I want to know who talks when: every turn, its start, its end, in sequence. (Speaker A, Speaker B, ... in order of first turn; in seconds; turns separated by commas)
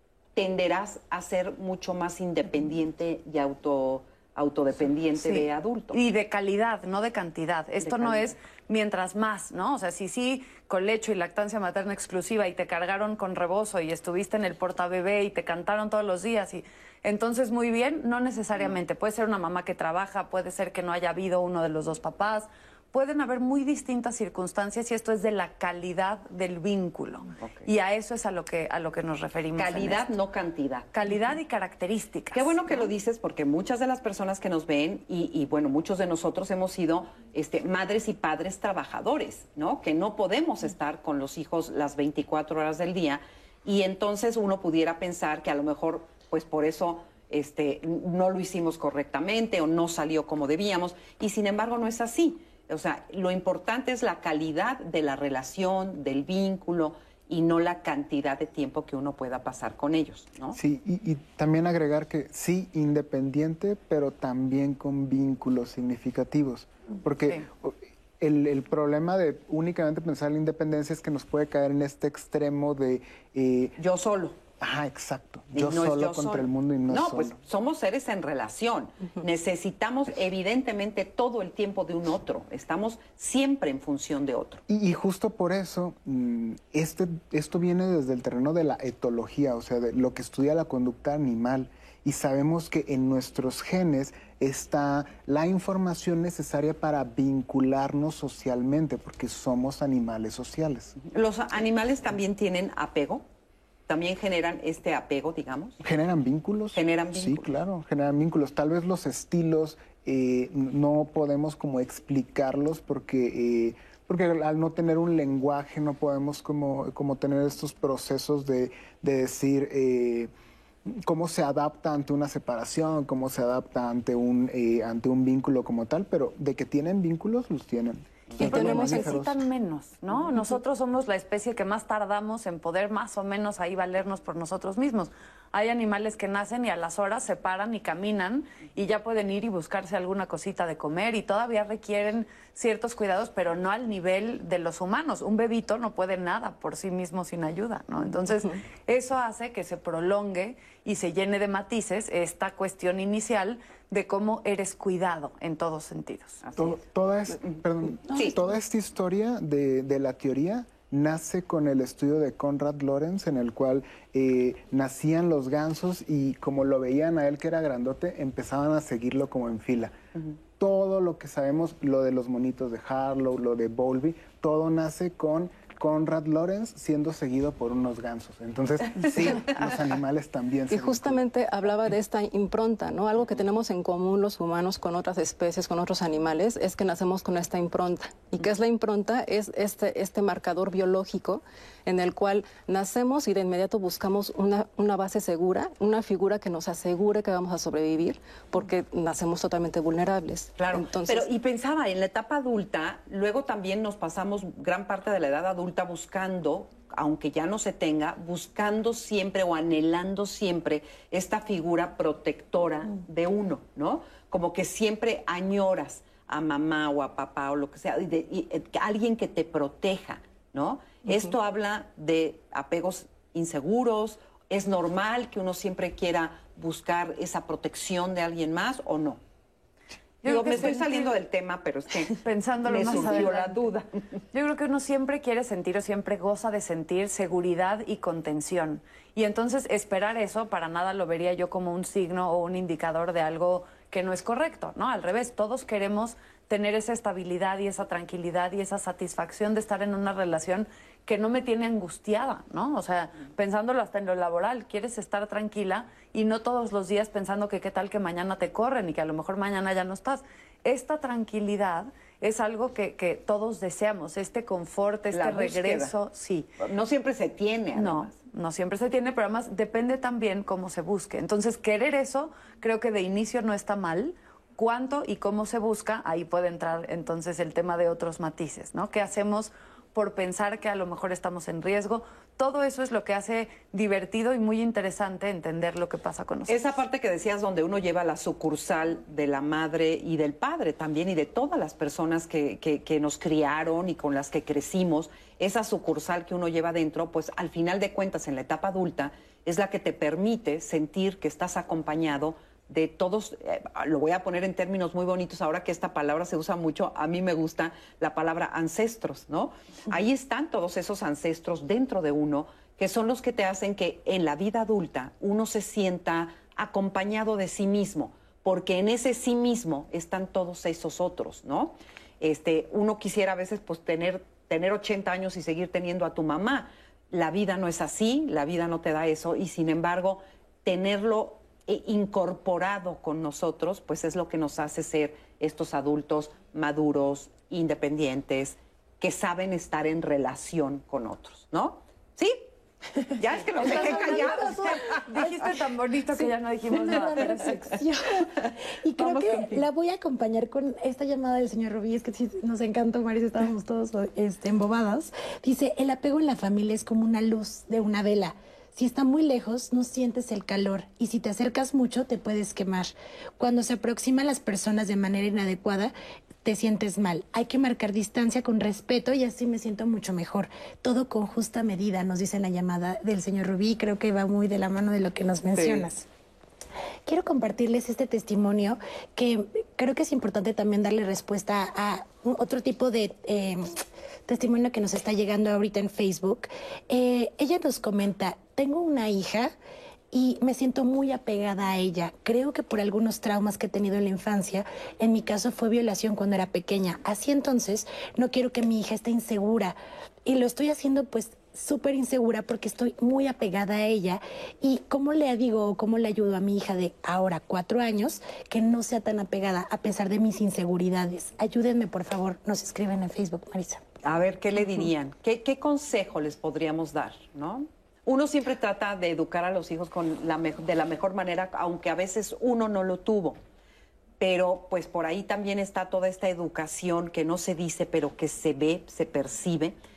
Speaker A: 0.3-6.0, Speaker B: 5.2-30.1, Speaker A: 7.8-8.2, Speaker A: 27.4-27.7, Speaker A: 29.6-30.9, Speaker B: 30.9-32.9, Speaker A: 32.3-60.6, Speaker C: 60.5-73.7, Speaker A: 73.8-74.4, Speaker C: 74.6-77.4, Speaker A: 75.5-84.6, Speaker C: 84.7-100.9, Speaker A: 101.0-103.2, Speaker A: 103.9-105.8, Speaker C: 105.8-120.3, Speaker A: 106.7-107.5, Speaker C: 120.8-129.4, Speaker D: 128.4-129.2, Speaker B: 128.4-156.4, Speaker A: 156.4-156.8, Speaker C: 156.6-170.0, Speaker A: 157.4-158.4, Speaker C: 170.5-181.2, Speaker D: 180.7-201.3, Speaker A: 200.6-229.2, Speaker B: 230.2-231.1, Speaker A: 230.2-233.8, Speaker B: 232.2-266.5, Speaker A: 265.1-265.9, Speaker A: 266.6-268.1, Speaker B: 267.8-286.6, Speaker A: 286.5-342.4, Speaker E: 343.0-345.6, Speaker A: 343.1-345.0, Speaker B: 343.6-347.8, Speaker E: 346.1-365.9, Speaker A: 348.2-349.6, Speaker E: 366.4-376.1, Speaker A: 375.5-375.9, Speaker E: 377.1-383.7, Speaker E: 384.3-389.5, Speaker E: 390.1-413.8, Speaker A: 414.0-423.4, Speaker A: 424.2-429.7